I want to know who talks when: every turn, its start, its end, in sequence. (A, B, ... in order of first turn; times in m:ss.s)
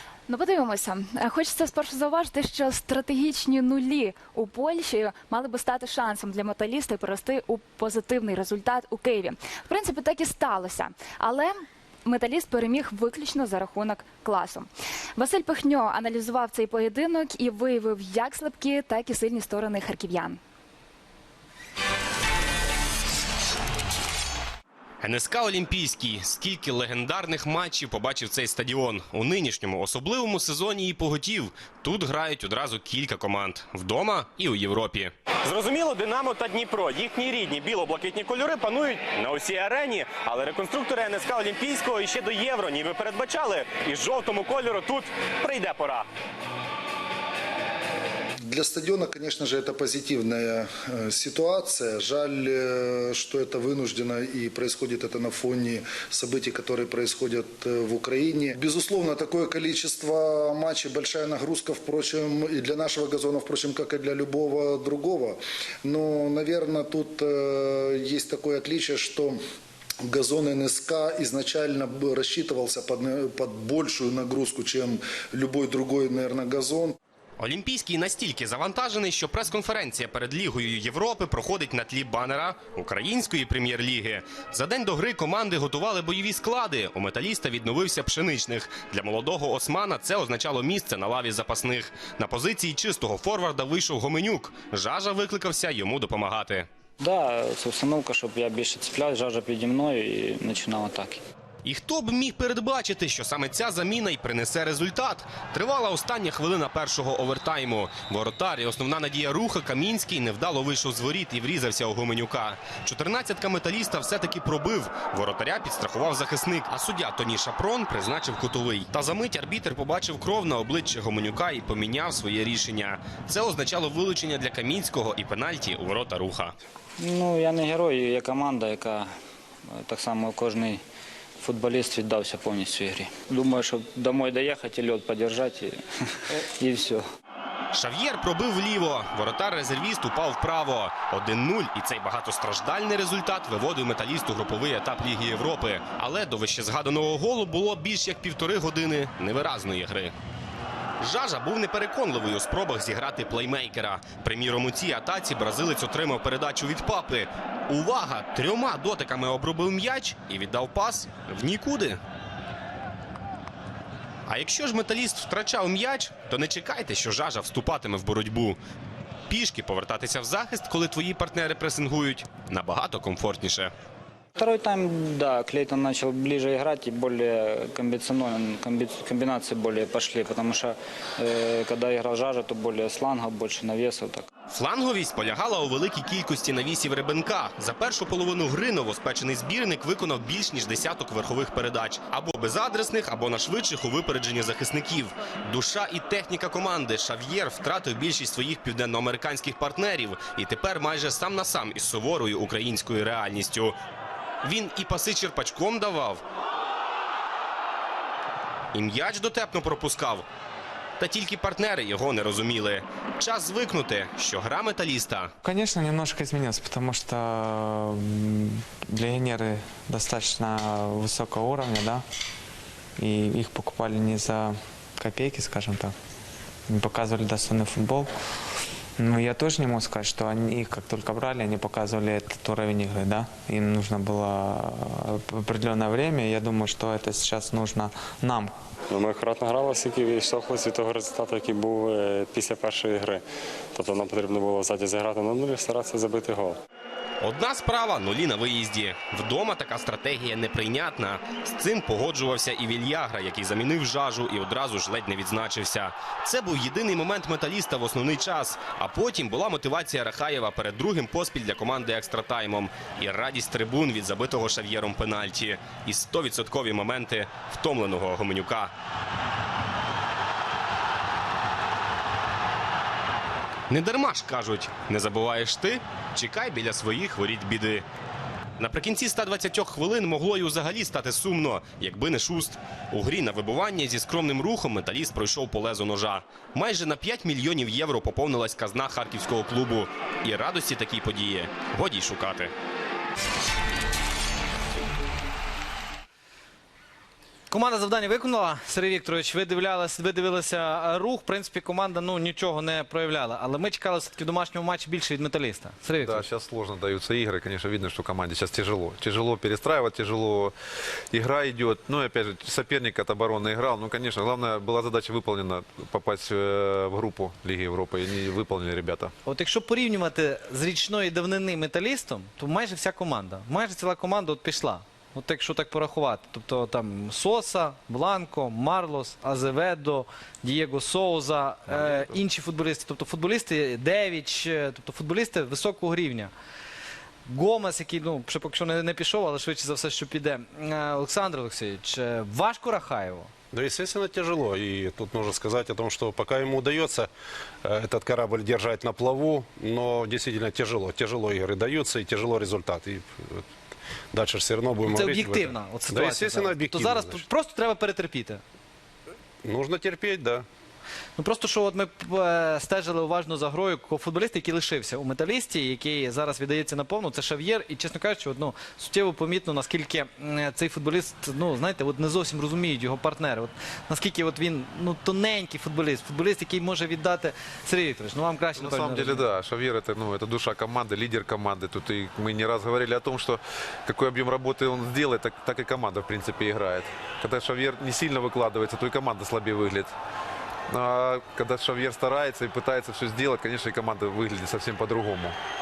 0:00.3-0:20.4 A
0:25.0-0:35.1 B
0:35.4-0:46.0 C
0:48.4-1:09.4 D
1:10.0-1:17.0 D
1:17.4-1:36.7 B
1:37.0-1:41.2 E
1:41.6-2:06.6 B
2:07.0-2:09.1 E
2:09.7-2:10.8 E
2:11.4-2:17.0 E
2:17.7-2:30.1 B
2:31.0-2:42.0 B
2:44.3-2:48.6 B
2:49.3-2:53.7 B
2:54.4-3:04.3 E
3:04.5-3:23.8 B
3:24.4-3:26.2 B
3:28.7-3:30.2 B
3:31.0-3:35.3 B
3:35.4-3:42.0 F
3:43.0-3:45.9 F
3:46.7-3:48.1 F
3:49.0-3:58.5 F
3:58.9-4:06.6 G
4:07.2-4:28.7 B
4:33.7-4:37.9 B
4:38.6-4:52.5 B
4:57.5-5:06.2 H
5:06.0-5:10.5 I
5:11.1-5:19.1 I
5:19.2-5:36.3 H
5:31.7-5:32.1 I
5:37.2-5:43.3 H
5:43.5-5:47.1 J
5:47.6-5:53.4 J
5:54.1-5:57.2 J
5:54.9-5:58.4 H
5:59.4-6:00.4 J
6:01.2-6:19.2 H
6:18.6-6:29.9 I
6:30.7-6:35.4 I